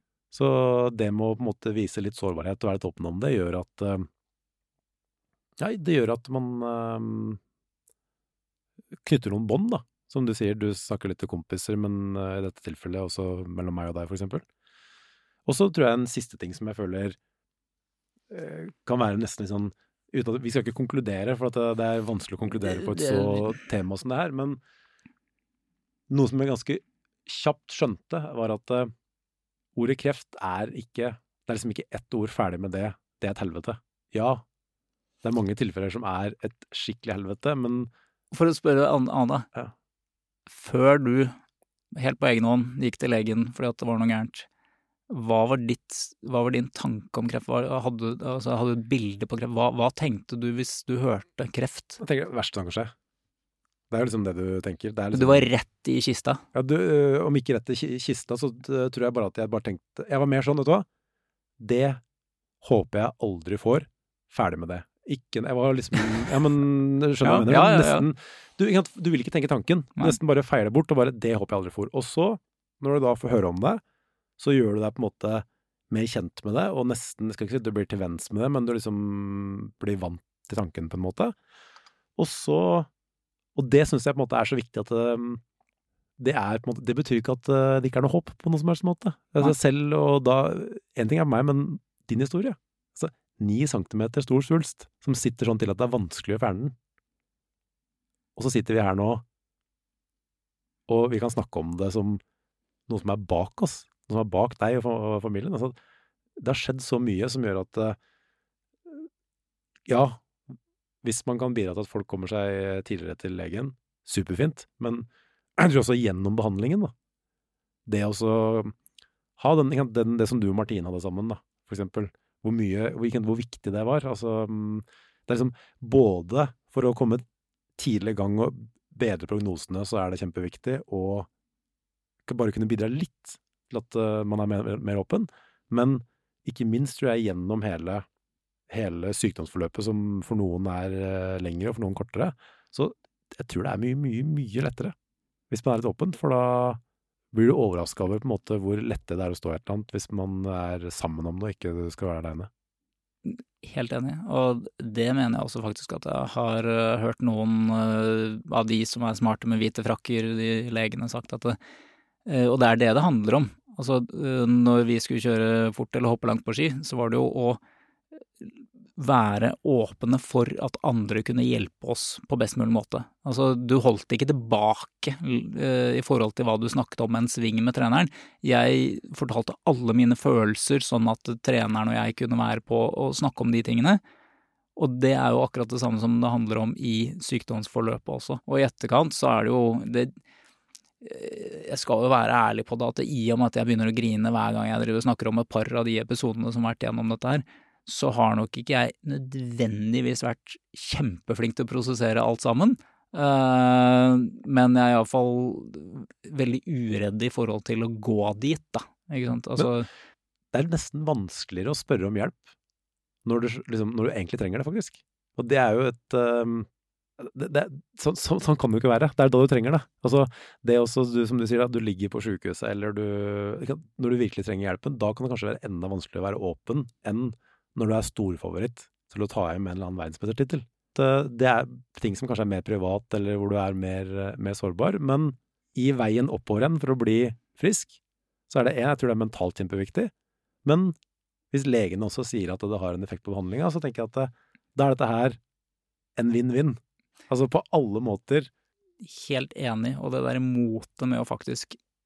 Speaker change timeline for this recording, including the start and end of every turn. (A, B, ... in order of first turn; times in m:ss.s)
0:00.3-0:04.1 A
0:05.6-0:07.4 A
0:09.0-0:14.4 A
0:15.5-0:17.2 A
0:18.3-0:24.6 A
0:22.7-0:23.6 B
0:26.1-0:28.9 A
0:29.8-0:34.4 A
0:35.2-0:37.9 A
0:38.3-0:39.5 B
0:40.5-0:41.4 B
0:42.0-0:44.5 B
0:45.1-0:52.0 B
0:52.0-0:52.9 A
0:53.9-0:55.5 A
0:55.1-0:56.4 B
0:56.6-1:00.9 A
1:01.6-1:02.0 A
1:02.6-1:13.8 A
1:07.2-1:08.1 B
1:14.4-1:21.4 A
1:22.2-1:22.9 A
1:23.6-1:25.4 A
1:26.2-1:36.8 A
1:38.4-1:39.2 A
1:40.9-1:42.2 A
1:42.9-1:45.8 A
1:46.4-1:48.0 A
1:49.9-1:50.3 A
1:51.0-1:56.9 A
1:57.9-1:58.8 A
1:59.4-2:07.2 A
2:07.8-2:11.3 A
2:12.3-2:18.1 A
2:18.7-2:24.9 A
2:25.5-2:26.8 A
2:27.3-2:32.5 A
2:33.3-2:41.6 B
2:42.3-2:47.6 B
2:48.4-3:04.0 B
3:04.8-3:10.2 B
3:11.0-3:29.9 B
3:30.5-3:32.4 A
3:33.2-3:58.0 A
3:58.5-4:00.1 A
4:00.6-4:01.0 A
4:01.5-4:05.4 A
4:06.2-4:08.5 A
4:09.0-4:11.8 B